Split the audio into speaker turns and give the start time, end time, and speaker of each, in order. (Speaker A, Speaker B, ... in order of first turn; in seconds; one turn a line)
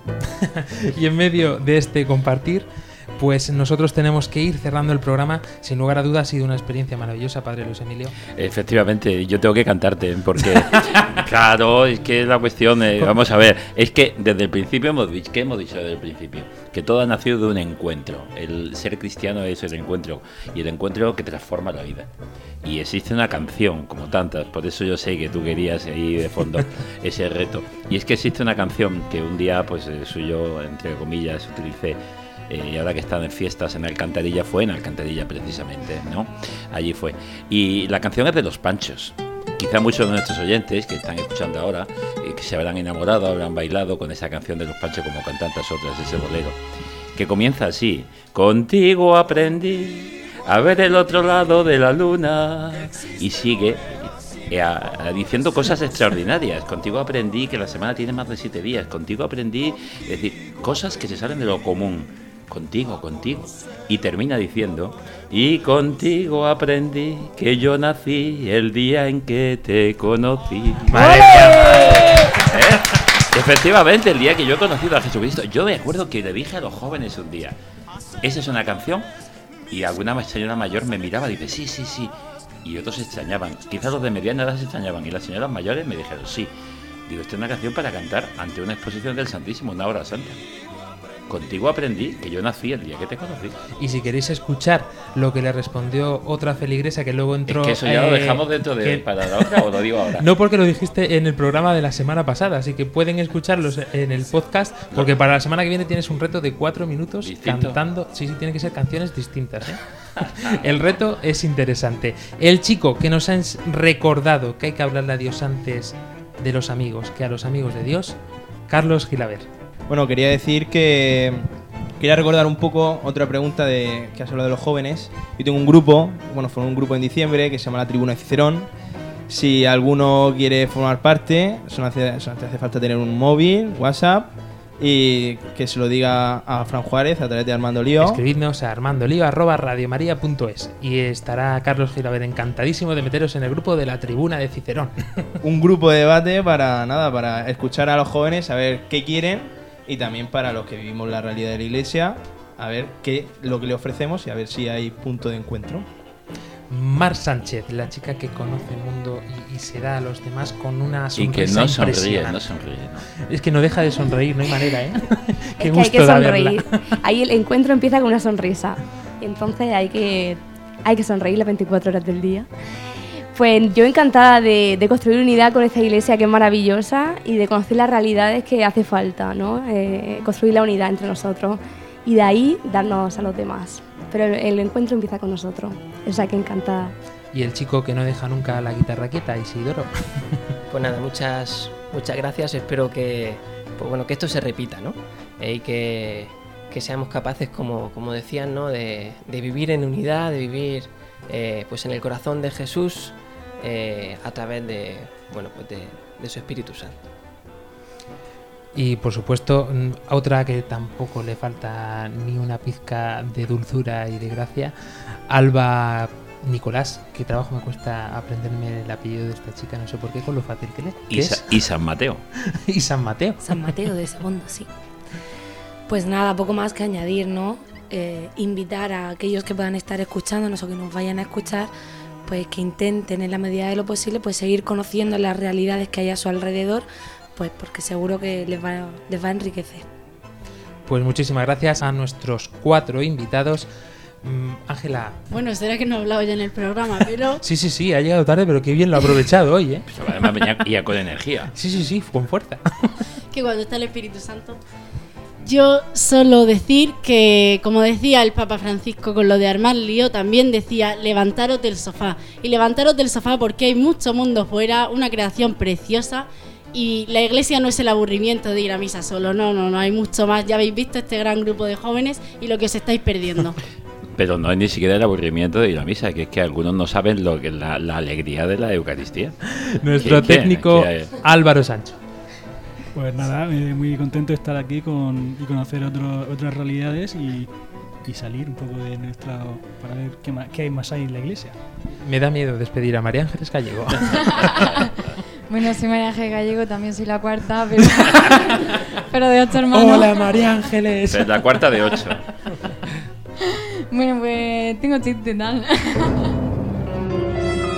Speaker A: 0.4-8.2
Speaker B: 8.3-22.1
Speaker B: 22.6-46.6
Speaker B: 47.1-77.5
Speaker A: 70.9-72.3
Speaker B: 78.2-79.1
Speaker B: 79.7-86.5
Speaker B: 87.1-90.4
Speaker B: 91.3-93.6
Speaker A: 93.8-99.6
Speaker B: 97.5-100.2
Speaker A: 100.2-119.5
Speaker B: 107.2-107.8
Speaker C: 119.9-121.5
Speaker C: 122.0-128.7
Speaker C: 129.3-138.2
Speaker A: 138.0-145.1
Speaker C: 145.4-155.9
Speaker A: 156.7-162.4
Speaker B: 161.2-163.1
Speaker A: 163.2-166.6
Speaker D: 165.6-172.5
Speaker D: 173.3-186.9
Speaker A: 187.3-190.4
Speaker E: 190.7-207.0
Speaker A: 208.7-221.5
Speaker B: 221.1-222.2
Speaker A: 222.5-223.8
Speaker F: 223.4-224.7
Speaker F: 225.9-231.7
Speaker F: 232.2-239.9
Speaker A: 240.9-243.7
Speaker A: 244.2-245.2
Speaker G: 245.3-247.4
Speaker A: 247.4-249.9
Speaker B: 249.9-251.5
Speaker A: 251.5-253.0
Speaker G: 253.3-254.6
Speaker G: 255.4-273.6
Speaker B: 274.1-279.4
Speaker A: 279.5-282.0
Speaker B: 279.9-281.1
Speaker H: 282.9-287.5
Speaker H: 288.0-291.5
Speaker A: 292.0-294.6
Speaker I: 294.5-294.9
Speaker I: 295.5-300.4
Speaker A: 298.1-298.5
Speaker A: 299.7-301.6
Speaker B: 301.1-302.2
Speaker I: 303.9-306.3